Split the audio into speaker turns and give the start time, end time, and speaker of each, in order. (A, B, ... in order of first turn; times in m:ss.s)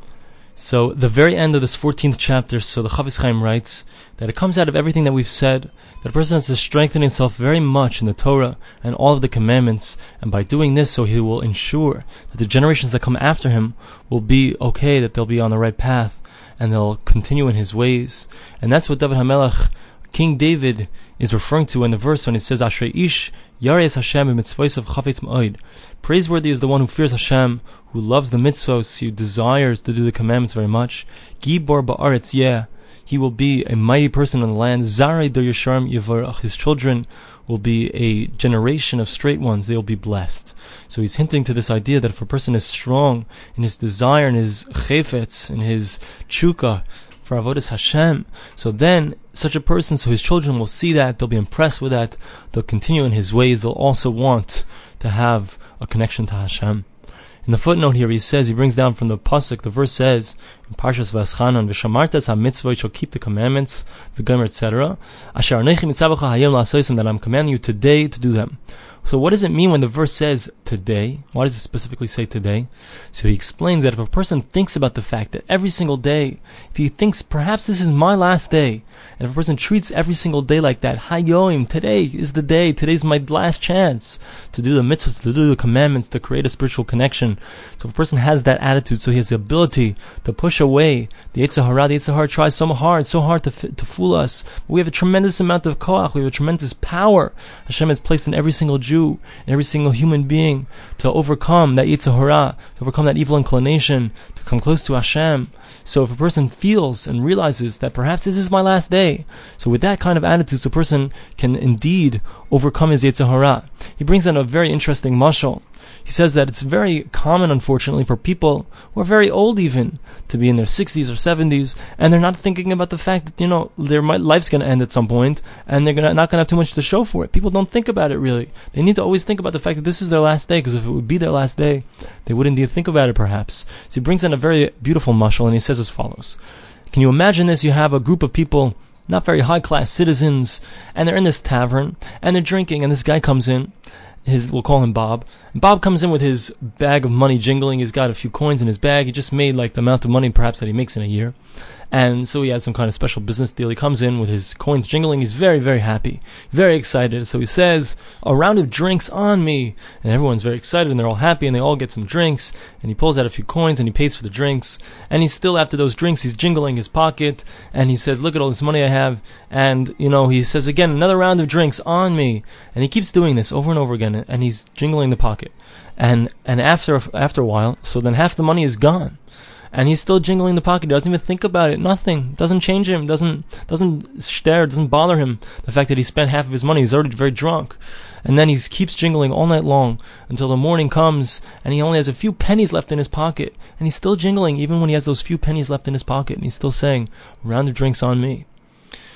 0:00.6-0:56.9 A
0:57.4-3:18.5 A